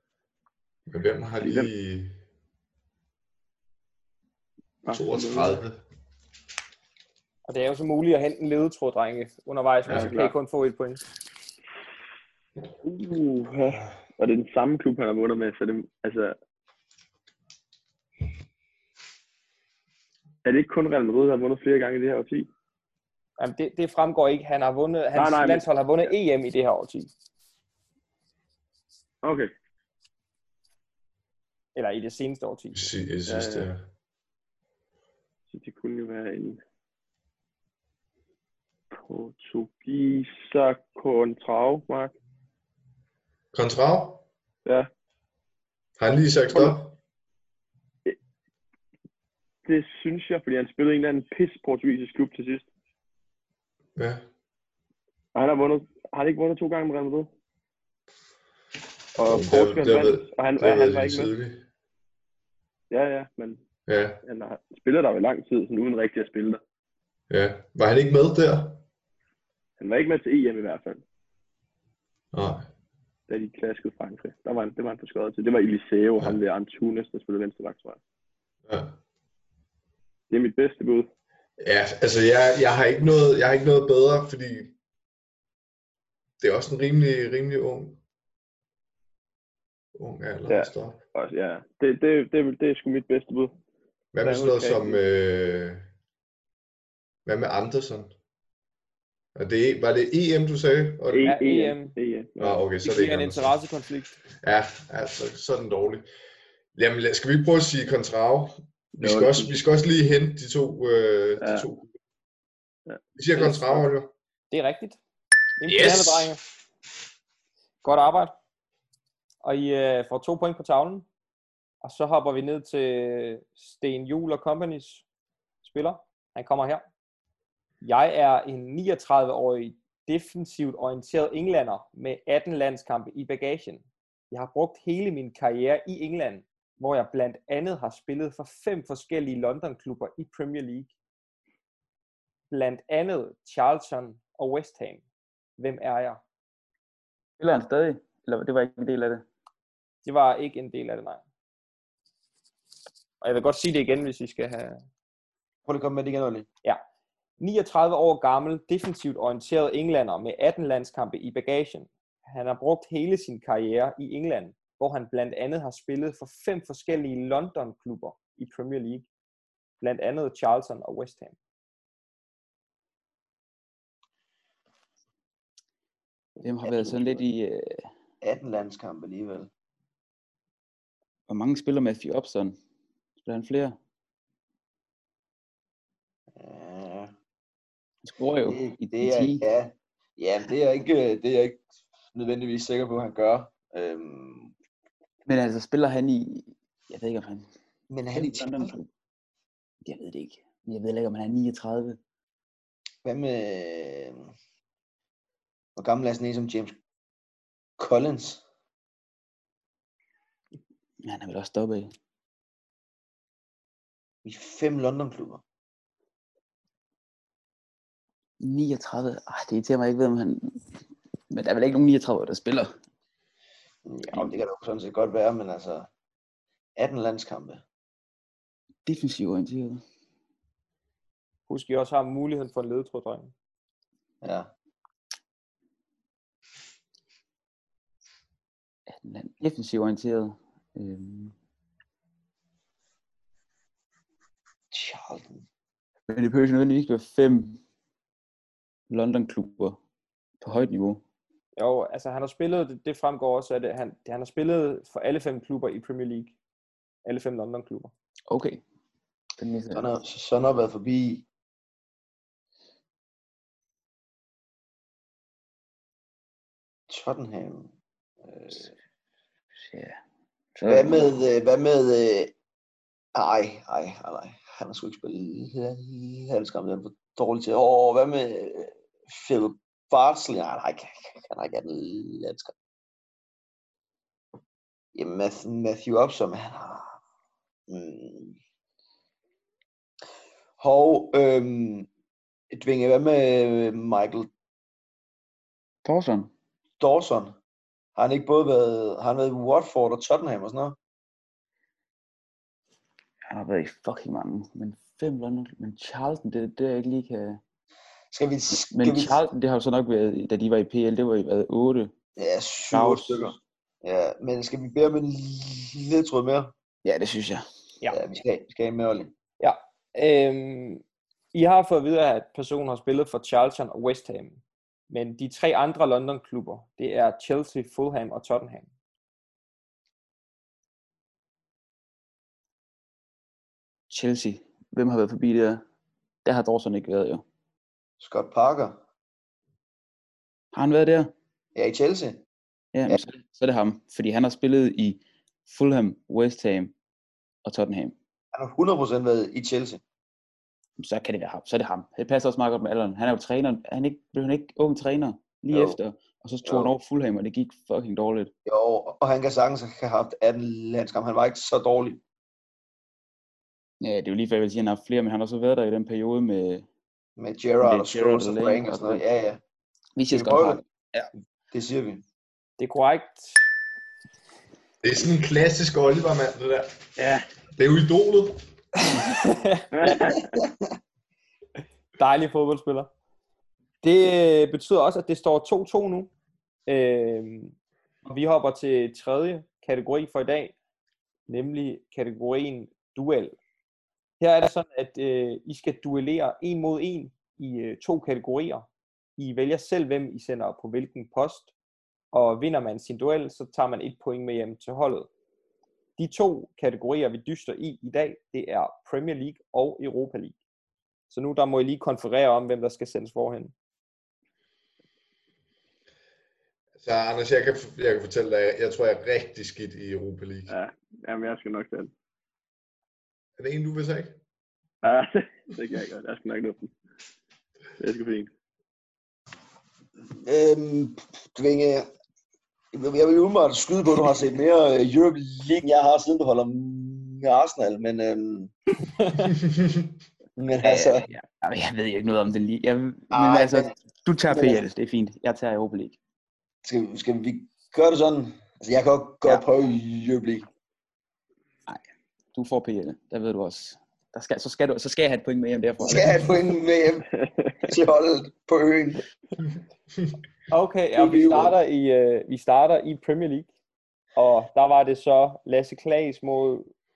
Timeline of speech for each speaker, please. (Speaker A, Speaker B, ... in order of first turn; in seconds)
Speaker A: 0.9-2.1, 4.9-5.8, 9.9-10.1, 32.7-33.8, 43.5-44.2, 46.0-47.0, 54.0-54.2, 59.2-61.6, 63.9-64.2, 67.3-68.8, 72.3-72.7, 78.7-79.0, 81.6-84.8, 86.4-88.0, 90.0-91.0, 94.1-95.9, 97.2-98.1, 99.3-101.3, 102.4-103.5, 104.4-106.1, 106.8-111.9, 113.2-114.1, 115.6-116.3, 374.8-376.8, 377.6-378.4, 416.8-420.5, 423.4-424.2
Speaker B: 1.4-1.7, 4.8-5.6, 9.9-10.3, 12.8-16.4, 20.4-22.5, 25.1-25.7, 29.2-29.5, 33.2-33.7, 35.5-36.6, 39.0-42.1, 49.6-52.7, 55.4-57.3, 59.1-61.3, 62.9-63.6, 64.2-66.6, 69.8-71.0, 73.3-78.0, 80.3-81.1, 90.5-93.5, 94.2-95.0, 101.1-102.6, 108.9-109.6, 111.4-111.7, 112.9-113.8, 379.7-380.3, 420.5-421.9, 424.8-426.7, 427.8-428.3, 457.2-457.6
Speaker C: 7.5-11.0, 23.4-27.1, 31.8-32.9, 101.2-101.9, 102.8-104.2, 114.5-115.0, 115.6-116.4, 117.8-118.3, 119.4-121.1, 121.8-125.0, 125.6-126.8, 127.8-140.9, 142.5-145.0, 145.6-146.2, 150.0-151.2, 153.2-154.8, 157.4-169.1, 169.8-171.4, 231.5-233.3, 251.6-256.4, 257.1-257.9, 319.4-320.8, 321.3-328.7, 372.6-373.4, 378.8-380.0, 382.0-382.9, 383.8-386.1, 386.7-390.6, 391.3-393.4, 394.2-398.7, 399.2-401.5, 402.1-405.1, 406.0-410.4, 411.1-413.5, 438.9-439.3, 460.5-463.5, 464.1-466.7
Speaker D: 147.4-149.2, 176.4-177.9, 181.3-182.6, 183.2-183.8, 188.0-189.4, 195.3-197.5, 198.1-198.9, 199.8-202.0, 211.0-211.9, 218.4-220.6, 221.3-222.7, 228.8-229.8, 238.9-241.3, 246.1-247.6, 248.9-249.8, 250.4-251.0, 258.3-258.6, 259.4-259.9, 269.6-270.0, 270.6-271.2, 295.9-296.3, 303.3-307.4, 308.6-311.9, 312.7-313.4, 316.9-317.4, 333.9-335.6, 336.2-337.2, 340.5-341.1, 342.7-346.7, 347.4-347.9, 350.8-358.3, 363.8-366.6, 367.6-369.0, 370.0-371.1, 440.6-446.0, 452.3-456.3
Speaker E: 155.7-156.5, 176.6-177.2, 178.2-179.5, 186.3-187.1, 188.4-191.6, 192.1-194.5, 197.9-198.8, 203.0-204.3, 205.8-206.8, 207.8-208.4, 214.2-215.4, 223.9-225.9, 226.8-227.6, 234.2-234.5, 244.7-245.4, 259.7-261.2, 266.9-267.7, 268.2-268.7, 270.6-272.3, 273.1-282.5, 284.9-287.0, 287.7-288.4, 290.6-291.9, 292.5-294.3, 296.8-297.4, 297.9-300.8, 308.1-309.2, 312.2-316.5, 317.9-319.1, 338.0-338.8, 341.6-342.2, 348.3-349.8, 355.5-355.8, 356.4-356.7, 358.4-362.0, 367.2-369.4, 370.1-370.6, 371.5-372.0, 430.2-431.9, 432.7-438.5, 440.4-441.1, 443.1-444.6, 446.6-450.5, 455.8-457.1, 457.6-459.1, 460.9-461.6